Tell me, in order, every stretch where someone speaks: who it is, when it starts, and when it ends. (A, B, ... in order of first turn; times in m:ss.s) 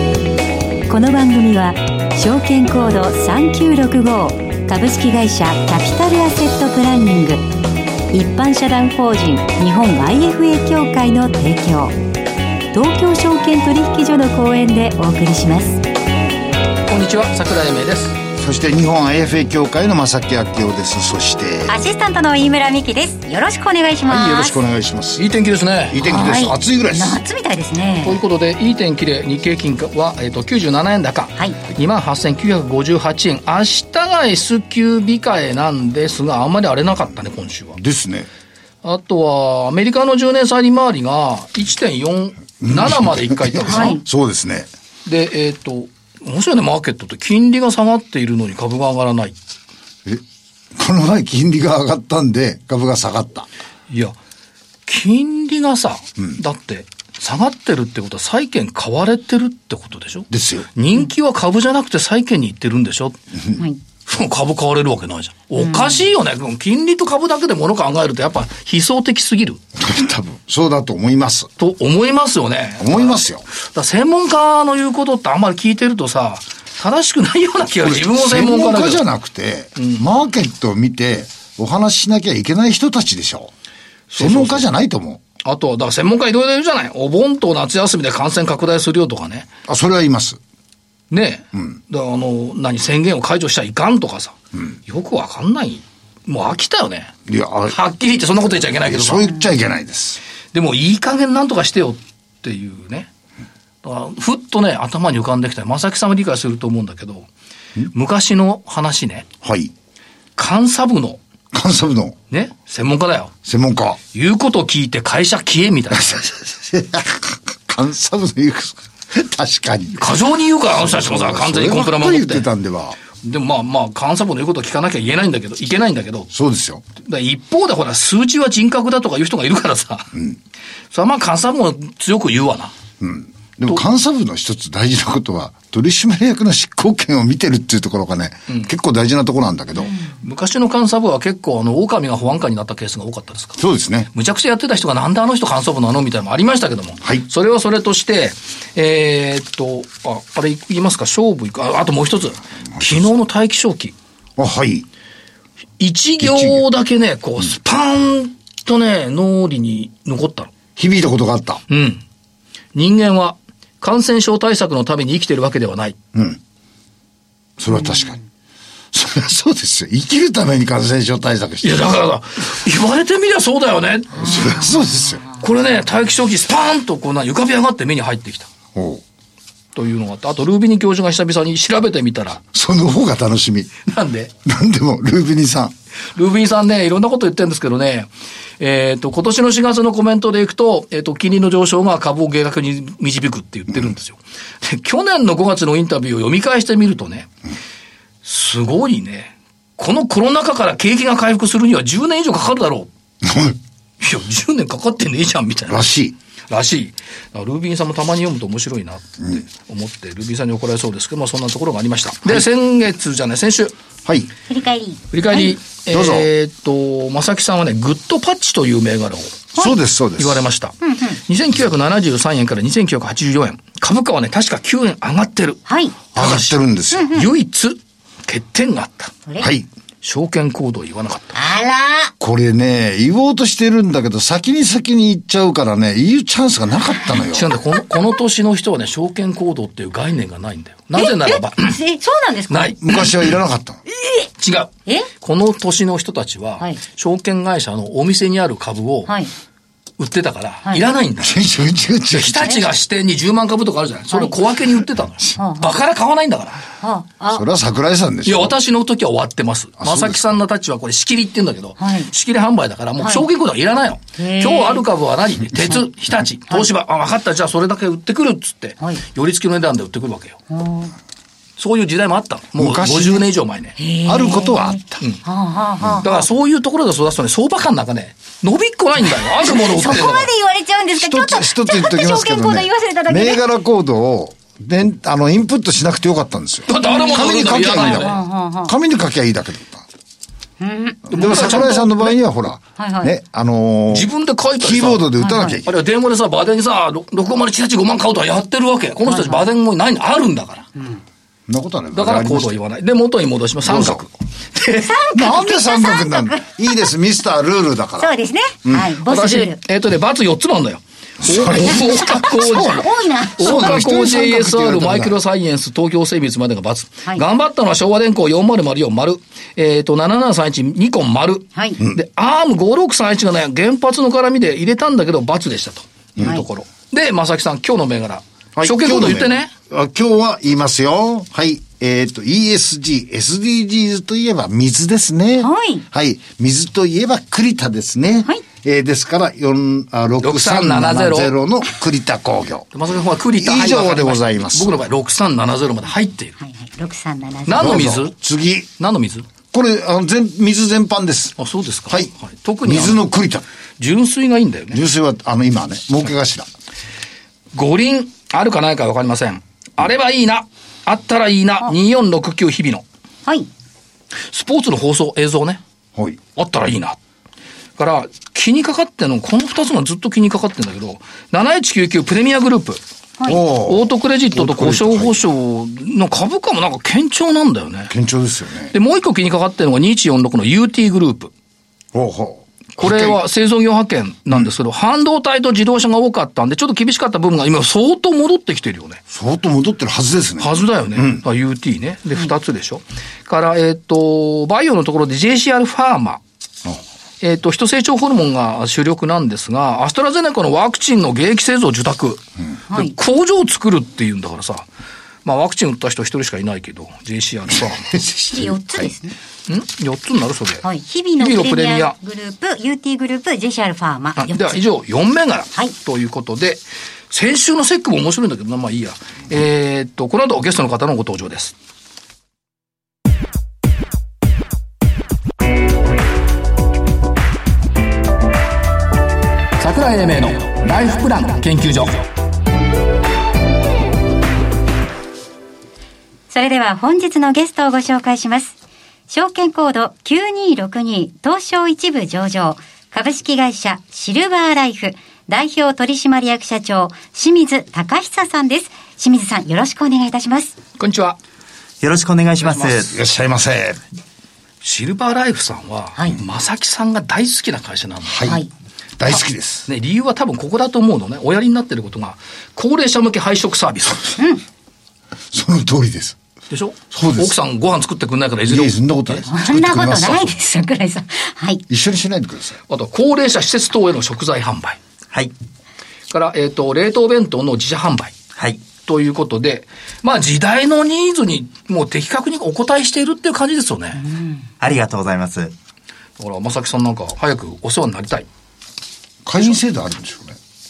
0:00.9-0:07.4 A
0:08.1-0:11.9 A
0:12.7-0:15.8 A
0:16.9-0:18.2 B
0:18.4-0:21.8 C
0:21.7-0:24.6 A
0:24.1-0:25.2 C
0:25.2-0:26.0 B
0:25.9-0:27.2 C
0:26.0-0:28.2 A
0:28.0-0:37.8 B
0:37.7-0:38.3 C
0:38.8-0:44.0 B
0:42.6-0:44.7 C
0:43.7-0:44.0 A
0:45.0-0:49.4 B
0:50.7-0:53.5 C
0:53.9-0:54.2 B
0:54.9-1:03.2 B
1:00.3-1:00.7 C
1:04.0-1:09.6 B
1:05.6-1:06.0 A
1:09.8-1:11.5 C
1:11.6-1:19.0 B
1:12.8-1:13.4 C
1:17.8-1:23.5 C
1:19.8-1:20.0 B
1:24.1-1:24.7 B
1:24.2-1:25.2 C
1:25.4-1:29.5 B
1:29.6-1:30.4 C
1:31.1-1:37.1 B
1:37.3-1:37.8 C
1:37.7-1:39.3 B
1:38.5-1:40.2 C
1:40.5-1:43.1 B
1:43.8-1:47.3 B
1:47.9-1:49.2 B
1:49.4-1:49.7 C
1:50.4-1:51.2 B
1:51.5-1:52.2 C
1:52.3-1:53.3 B
1:53.4-1:54.0 C
1:54.1-1:56.2 B
1:55.9-2:00.2 C
1:59.9-2:02.5 B
2:00.7-2:03.0 C
2:03.2-2:06.3 B
2:06.3-2:06.8 C
2:07.0-2:10.1 B
2:10.9-2:12.7 B
2:13.0-2:20.0 C
2:20.2-2:23.6 B
2:23.6-2:24.1 C
2:24.1-2:33.9 B
2:34.4-2:34.9 C
2:35.8-2:40.5 B
2:36.2-2:36.6 C
2:40.8-2:41.6 C
2:41.7-2:42.0 B
2:42.7-2:46.0 B
2:46.1-2:46.4 C
2:47.6-2:48.2 C
2:48.9-2:51.9 C
2:51.6-2:54.6 B
2:54.1-2:55.2 C
2:54.6-2:55.2 A
2:55.3-2:58.5 B
2:58.7-2:59.0 C
2:59.7-3:02.4 B
3:02.5-3:03.7 C
3:03.8-3:04.3 B
3:04.4-3:05.7 C
3:06.1-3:17.3 B
3:18.2-3:22.9 B
3:23.2-3:23.6 C
3:24.0-3:25.9 B
3:25.7-3:26.1 C
3:26.5-3:33.7 B
3:34.0-3:34.3 C
3:34.5-3:35.0 A
3:35.1-3:39.5 B
3:35.9-3:36.3 C
3:39.5-3:40.4 C
3:40.2-3:45.6 B
3:40.8-3:41.2 A
3:45.7-3:46.0 A
3:46.1-3:49.1 B
3:46.1-3:47.2 C
3:46.9-3:47.2 A
3:49.4-3:49.7 C
3:50.0-3:51.4 B
3:51.4-3:52.1 A
3:52.2-3:57.5 C
3:57.3-4:01.8 B
4:00.9-4:02.8 A
4:02.5-4:02.8 B
4:02.8-4:03.8 C
4:04.2-4:09.1 B
4:09.0-4:09.3 A
4:10.0-4:11.4 B
4:11.2-4:12.6 C
4:12.1-4:16.7 B
4:15.4-4:15.7 A
4:16.8-4:17.4 A
4:17.3-4:18.5 C
4:18.2-4:30.4 B
4:19.8-4:20.4 C
4:21.8-4:22.1 A
4:23.0-4:23.2 A
4:24.2-4:24.8 A
4:30.5-4:30.9 A
4:31.6-4:33.8 B
4:32.6-4:33.2 C
4:33.8-4:36.2 A
4:34.0-4:35.0 C
4:35.8-4:36.0 C
4:36.0-4:40.3 B
4:39.4-4:43.4 A
4:41.0-4:49.8 C
4:46.7-4:48.2 B
4:46.8-4:48.7 A
4:50.6-4:51.9 A
4:51.1-4:55.8 C
4:51.1-4:51.8 B
4:52.8-4:53.1 A
4:53.9-5:00.7 B
4:55.2-4:55.6 A
4:59.0-4:59.5 A
5:00.8-5:01.0 A
5:01.5-5:02.6 C
5:01.9-5:04.9 B
5:03.6-5:04.0 C
5:04.7-5:06.7 A
5:05.1-5:08.9 C
5:08.0-5:09.6 A
5:09.0-5:12.8 B
5:11.2-5:15.2 C
5:12.1-5:13.8 A
5:13.4-5:29.5 B
5:26.2-5:26.4 C
5:28.5-5:42.7 C
5:35.4-5:35.8 A
5:40.2-5:41.3 B
5:42.7-5:46.4 B
5:43.3-5:44.7 C
5:46.4-5:47.8 A
5:47.4-5:48.1 B
5:47.5-5:48.7 C
5:48.8-5:49.3 B
5:49.5-5:51.4 C
5:51.4-5:53.0 B
5:52.6-5:53.4 C
5:53.8-5:54.8 B
5:54.7-5:56.5 C
5:57.5-6:02.8 B
6:04.3-6:05.6 B
6:06.3-6:07.0 B
6:07.8-6:12.8 B
6:13.3-6:15.3 C
6:13.6-6:17.9 B
6:17.9-6:18.7 C
6:18.7-6:21.3 B
6:21.9-6:23.2 C
6:22.8-6:29.0 B
6:29.1-6:31.2 C
6:30.4-6:36.2 B
6:37.2-6:44.7 B
6:42.7-6:43.0 A
6:45.2-6:47.9 B
6:47.8-6:48.9 C
6:48.3-6:49.1 A
6:49.5-6:50.6 B
6:50.6-6:54.6 A
6:51.2-6:51.9 B
6:54.2-7:01.5 B
7:09.6-7:12.0 B
7:16.3-7:18.5 A
7:19.1-7:30.6 A
7:30.8-7:31.2 B
7:31.8-7:33.0 D
7:32.4-7:32.8 B
7:32.8-7:33.8 C
7:34.6-7:38.2 B
7:38.0-7:38.5 C
7:38.2-7:38.5 A
7:39.0-7:39.7 C
7:39.6-7:44.2 B
7:45.3-7:46.2 C
7:46.5-7:49.3 B
7:46.9-7:47.4 C
7:48.4-7:50.4 C
7:49.3-7:51.6 A
7:51.7-7:52.6 C
7:52.7-7:54.8 B
7:56.1-7:58.1 B
7:58.4-7:58.6 D
7:58.8-8:04.0 B
8:04.0-8:04.4 A
8:04.6-8:05.5 D
8:06.2-8:08.3 B
8:09.2-8:10.4 C